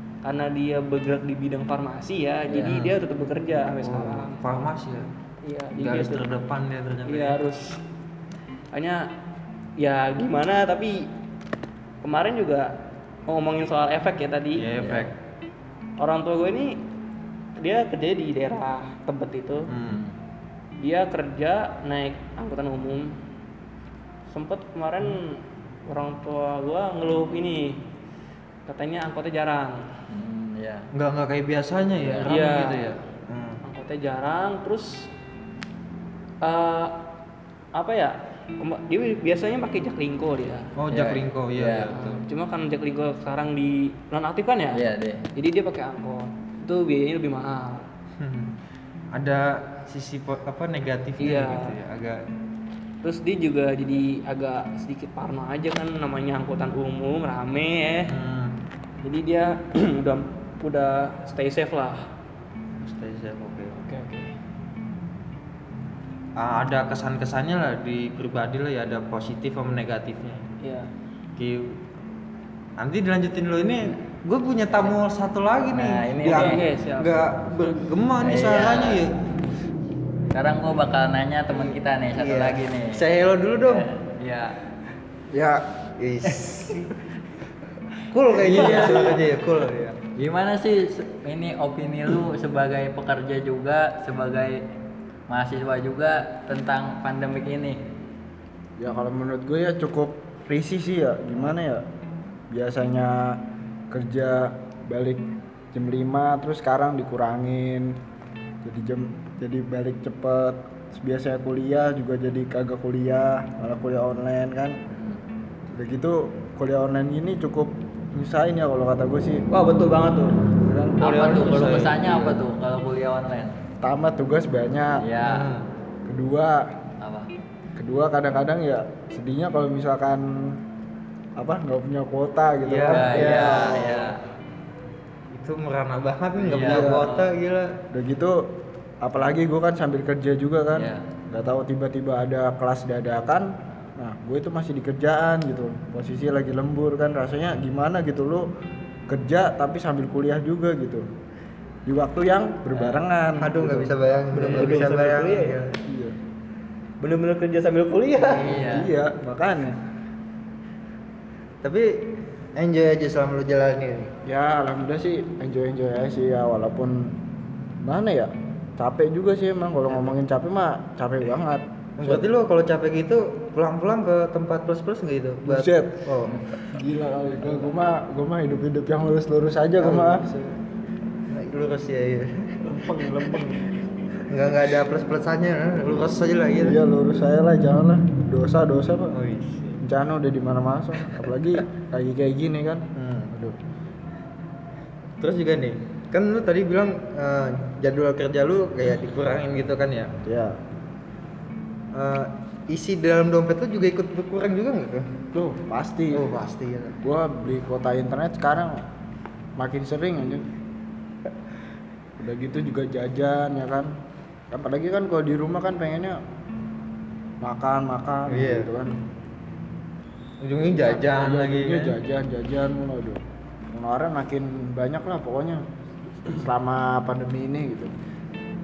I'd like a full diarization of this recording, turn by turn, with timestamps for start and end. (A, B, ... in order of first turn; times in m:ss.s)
0:00.2-0:04.4 A
0:02.5-0:02.8 B
0:02.6-0:02.9 C
0:03.8-0:05.1 C
0:05.4-0:06.3 A
0:05.8-0:07.4 C
0:07.0-0:07.8 A
0:08.7-0:09.0 A
0:09.8-0:11.1 A
0:12.0-0:12.7 A
0:13.3-0:14.7 A
0:14.5-0:15.1 C
0:14.8-0:15.1 B
0:16.0-0:16.8 A
0:17.6-0:19.7 A
0:19.7-0:20.0 C
0:19.9-0:20.1 B
0:20.8-0:23.2 A
0:24.3-0:27.8 A
0:28.6-0:29.9 A
0:30.1-0:30.9 B
0:30.9-0:33.6 C
0:32.0-0:32.3 B
0:32.2-0:32.9 A
0:33.6-0:35.1 A
0:36.4-0:37.0 A
0:37.7-0:40.7 A
0:40.8-0:42.2 C
0:40.9-0:42.0 B
0:41.9-0:44.8 A
0:44.7-0:45.3 B
0:45.3-0:47.9 A
0:48.2-0:48.5 C
0:49.1-0:52.2 C
0:51.2-0:51.8 A
0:53.0-0:58.1 A
0:58.1-0:58.6 C
0:59.0-1:02.1 A
1:02.8-1:03.8 C
1:03.8-1:04.3 A
1:06.4-1:10.4 C
1:10.6-1:10.9 A
1:11.4-1:11.8 C
1:12.8-1:19.2 C
1:15.7-1:16.6 B
1:16.2-1:17.4 A
1:18.2-1:19.0 B
1:20.3-1:23.0 B
1:21.5-1:23.9 C
1:23.6-1:24.5 B
1:25.3-1:26.9 C
1:28.1-1:30.0 C
1:28.4-1:29.2 B
1:28.5-1:29.2 A
1:30.2-1:34.6 B
1:35.3-1:37.8 B
1:38.8-1:41.8 D
1:42.5-1:48.0 D
1:48.6-1:54.8 D
1:54.9-1:55.2 B
1:55.7-1:59.4 D
1:59.5-2:00.4 A
2:00.6-2:02.4 C
2:01.0-2:03.5 B
2:03.8-2:05.0 D
2:05.0-2:05.5 B
2:05.2-2:05.7 C
2:06.0-2:06.7 D
2:07.0-2:07.3 B
2:07.8-2:10.6 D
2:11.4-2:13.8 D
2:12.6-2:14.2 C
2:12.9-2:14.2 B
2:15.3-2:17.8 C
2:16.5-2:17.1 D
2:16.5-2:17.3 B
2:17.9-2:18.4 D
2:19.0-2:28.5 D
2:20.7-2:21.0 B
2:29.1-2:31.1 D
2:31.8-2:33.9 D
2:33.4-2:35.8 C
2:34.3-2:35.6 A
2:34.4-2:34.8 D
2:35.8-2:36.2 D
2:37.0-2:38.5 A
2:38.2-2:38.9 B
2:38.3-2:38.6 C
2:38.6-2:39.8 D
2:41.6-2:44.1 C
2:44.2-2:47.2 D
2:47.8-2:52.2 D
2:52.0-2:56.4 C
2:55.4-3:00.2 D
2:59.8-3:00.6 C
3:01.3-3:02.6 C
3:02.6-3:03.7 A
3:04.2-3:06.8 C
3:06.6-3:09.2 D
3:09.1-3:09.8 C
3:09.8-3:13.6 D
3:13.0-3:13.3 C
3:15.2-3:20.1 C
3:20.2-3:20.6 D
3:21.9-3:25.1 C
3:25.3-3:26.3 D
3:26.1-3:27.0 C
3:27.0-3:28.9 D
3:29.6-3:30.5 D
3:32.2-3:33.9 D
3:34.5-3:36.2 D
3:37.4-3:39.0 D
3:38.3-3:38.7 C
3:40.4-3:41.9 C
3:40.6-3:43.2 D
3:43.7-3:45.6 D
3:46.3-3:47.9 D